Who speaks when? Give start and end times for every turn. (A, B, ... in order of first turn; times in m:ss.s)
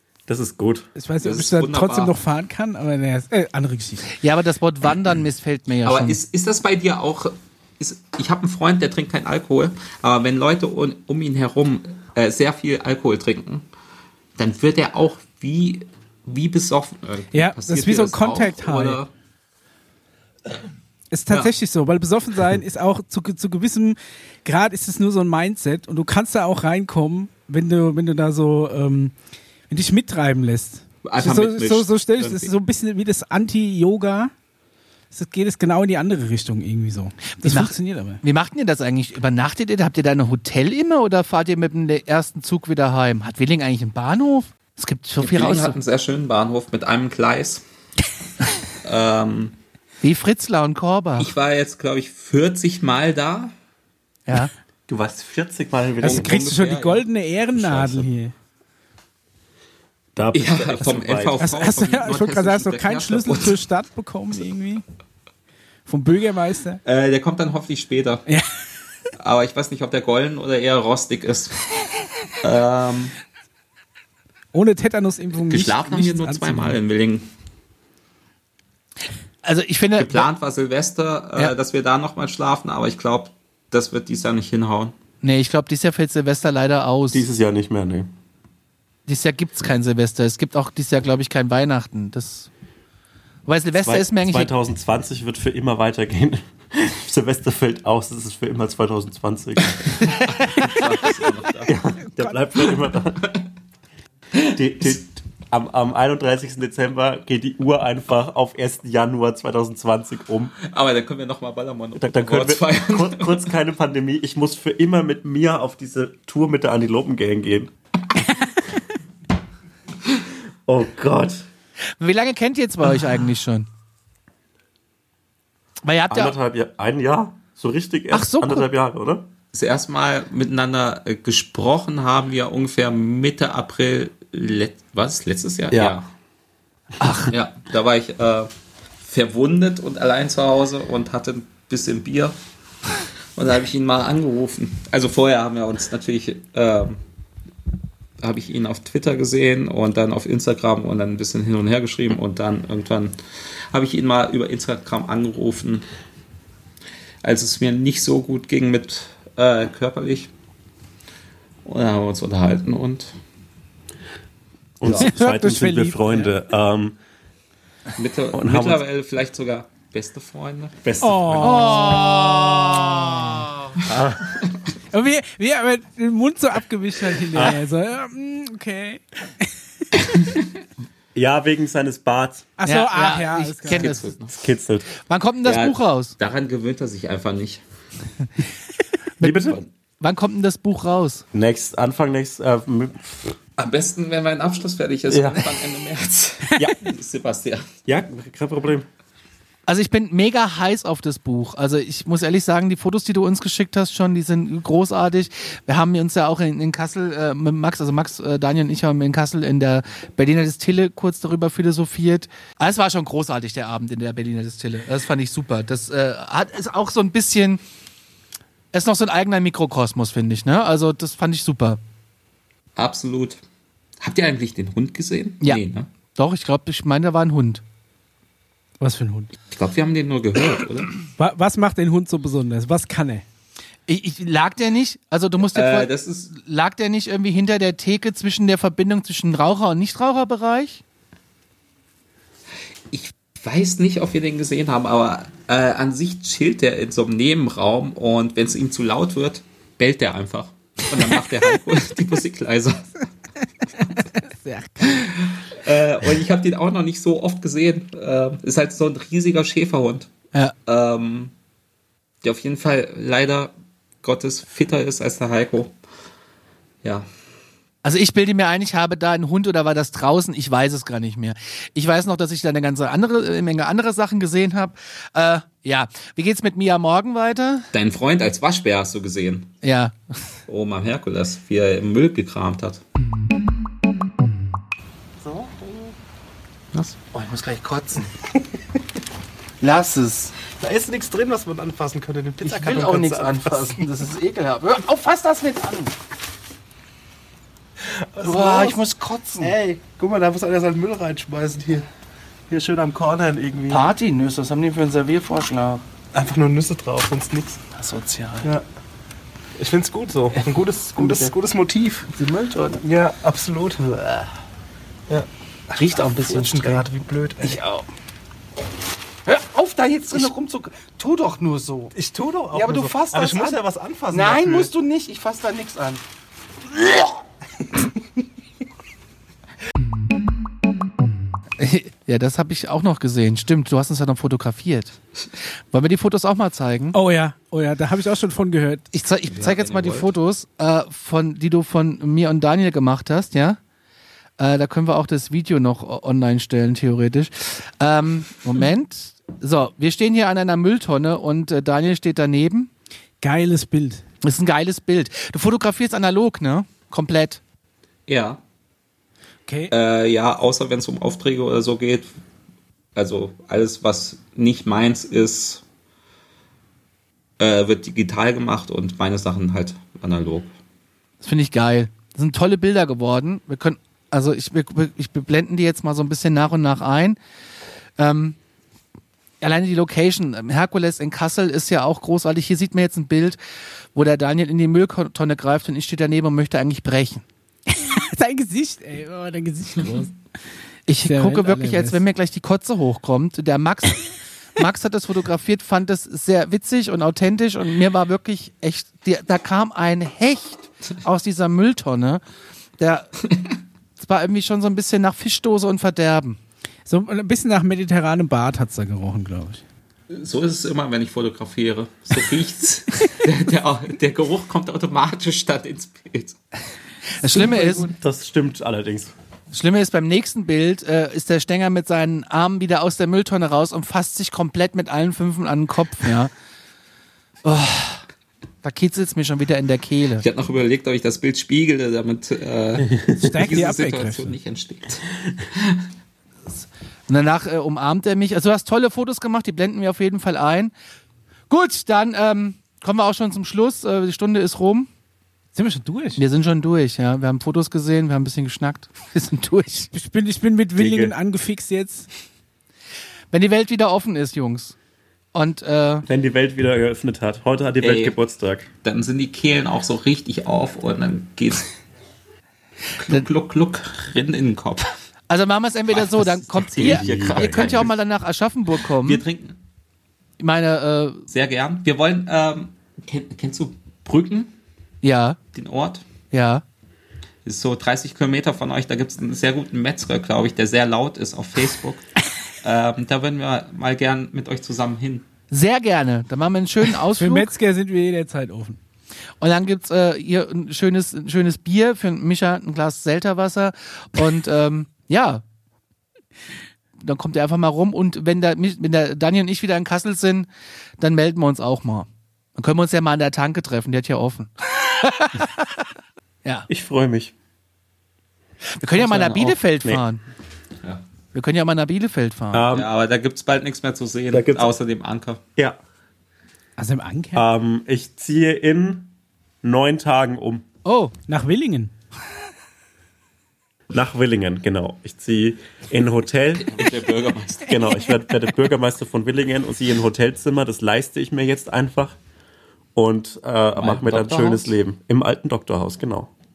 0:00.3-0:00.9 A
0:00.9-0:04.1 B
0:01.2-0:02.1 C
0:04.1-0:06.2 D
0:05.8-0:13.6 C
0:14.4-0:19.1 C
0:17.3-0:19.0 B
0:21.1-0:29.1 B
0:29.7-0:34.3 B
0:31.0-0:32.5 C
0:35.1-0:38.2 B
0:37.4-0:45.8 D
0:45.2-0:47.6 C
0:48.8-0:49.5 C
0:50.0-0:51.3 D
0:51.2-0:53.5 C
0:54.3-0:54.5 D
0:54.9-0:56.3 A
0:56.0-0:58.0 C
0:56.0-0:58.3 B
1:00.1-1:01.4 A
1:00.3-1:03.6 C
1:01.4-1:04.8 B
1:05.9-1:06.8 B
1:06.8-1:08.2 C
1:09.2-1:11.6 C
1:12.3-1:13.1 C
1:14.5-1:16.8 B
1:15.5-1:17.3 C
1:19.4-1:20.3 D
1:20.0-1:24.9 C
1:25.2-1:27.3 D
1:27.1-1:28.1 A
1:29.1-1:32.5 D
1:33.4-1:34.5 D
1:33.8-1:40.2 A
1:40.4-1:41.7 C
1:41.6-1:43.4 A
1:44.5-1:50.5 A
1:50.6-1:53.5 C
1:52.0-1:57.7 A
2:00.6-2:01.4 A
2:02.0-2:03.7 D
2:05.8-2:06.4 D
2:06.1-2:09.3 A
2:08.1-2:08.7 D
2:09.5-2:16.1 C
2:15.7-2:16.0 A
2:17.0-2:17.3 D
2:17.3-2:22.4 C
2:23.4-2:27.0 C
2:28.2-2:33.1 C
2:33.7-2:35.8 C
2:37.2-2:40.3 C
2:41.6-2:43.2 C
2:44.8-2:47.0 A
2:44.9-2:46.3 B
2:48.0-2:50.8 C
2:48.3-2:48.8 A
2:50.8-2:52.7 A
2:51.0-2:52.2 B
2:51.4-2:53.8 D
2:53.8-2:54.4 A
2:54.9-2:59.5 B
2:57.3-2:57.6 A
3:01.1-3:02.5 A
3:02.6-3:03.9 B
3:02.6-3:04.1 D
3:03.7-3:04.3 C
3:04.3-3:04.9 A
3:04.9-3:06.1 D
3:05.4-3:07.6 C
3:09.2-3:11.2 D
3:09.2-3:09.7 A
3:11.3-3:13.4 A
3:13.6-3:17.7 C
3:15.1-3:15.5 A
3:17.9-3:18.8 A
3:19.6-3:37.6 D
3:38.7-3:41.8 D
3:42.8-3:43.4 C
3:44.0-3:45.9 C
3:46.1-3:47.6 D
3:48.8-3:49.3 B
3:49.5-3:50.9 C
3:51.2-3:53.2 B
3:53.9-4:00.8 D
3:55.5-3:56.3 C
4:02.9-4:13.1 C
4:14.1-4:15.0 B
4:14.8-4:20.1 C
4:20.6-4:21.3 C
4:22.2-4:25.7 C
4:27.8-4:37.7 D
4:37.7-4:39.5 C
4:39.6-4:40.2 D
4:40.5-4:42.8 C
4:45.2-4:45.9 E
4:46.7-4:48.1 D
4:49.6-4:50.3 D
4:50.4-4:53.9 E
4:52.4-4:56.0 D
4:57.9-4:58.8 E
4:58.2-4:59.5 D
4:59.4-5:01.9 E
5:02.5-5:03.9 E
5:03.7-5:05.8 D
5:06.1-5:07.6 E
5:07.7-5:08.5 D
5:09.6-5:14.3 E
5:11.0-5:11.3 D
5:12.2-5:12.8 D
5:15.1-5:17.6 E
5:15.7-5:16.8 D
5:17.4-5:17.9 D
5:19.2-5:21.9 D
5:21.9-5:24.7 E
5:22.5-5:26.0 D
5:31.6-5:35.0 D
5:35.7-5:37.0 D
5:36.9-5:38.9 B
5:38.9-5:43.6 D
5:39.3-5:40.1 C
5:44.4-5:52.7 D
5:53.2-5:54.0 B
5:54.2-5:57.4 D
5:58.1-5:58.4 C
5:59.5-5:59.7 B
5:59.7-6:02.1 C
6:02.9-6:05.6 C
6:07.4-6:10.5 C
6:11.2-6:17.2 D
6:18.0-6:18.4 D
6:19.4-6:23.4 D
6:23.9-6:27.2 D
6:27.7-6:30.1 B
6:30.9-6:42.2 D
6:31.0-6:32.0 B
6:42.8-6:43.2 D
6:44.0-6:46.4 D
6:46.8-6:49.6 B
6:50.1-6:56.4 C
6:57.2-6:57.9 D
6:57.8-6:59.1 A
6:59.5-7:06.3 D
7:07.4-7:08.0 D
7:08.6-7:10.2 D
7:10.2-7:15.8 C
7:13.2-7:14.3 B
7:16.5-7:20.7 D
7:21.5-7:24.9 D
7:25.5-7:26.2 B
7:26.2-7:29.9 D
7:29.9-7:32.1 B
7:30.8-7:31.2 A
7:33.3-7:34.8 D
7:35.3-7:36.0 D
7:36.0-7:38.7 A
7:37.8-7:38.2 C
7:38.8-7:41.7 C
7:43.0-7:44.9 C
7:45.3-7:49.2 D
7:45.9-7:48.0 C
7:46.8-7:47.9 A
7:48.9-7:49.6 C
7:50.4-7:51.2 D
7:51.3-7:54.5 C
7:55.0-7:55.4 D
7:55.5-7:56.0 C
7:56.3-7:56.6 D
7:57.4-8:02.1 C
8:02.6-8:05.2 C
8:05.5-8:07.5 D
8:07.2-8:08.8 B
8:09.4-8:15.4 D
8:17.0-8:25.8 D
8:26.7-8:27.3 A
8:28.8-8:30.2 D
8:29.0-8:29.6 C
8:31.3-8:32.6 D
8:32.5-8:32.9 A
8:32.7-8:35.4 C
8:34.3-8:34.7 A
8:36.8-8:37.4 B
8:37.3-8:39.1 A
8:39.6-8:40.6 A
8:40.9-8:41.9 B
8:43.9-8:46.9 A
8:46.5-8:47.8 C
8:47.6-8:52.2 A
8:52.9-8:56.3 A
8:53.7-8:54.7 C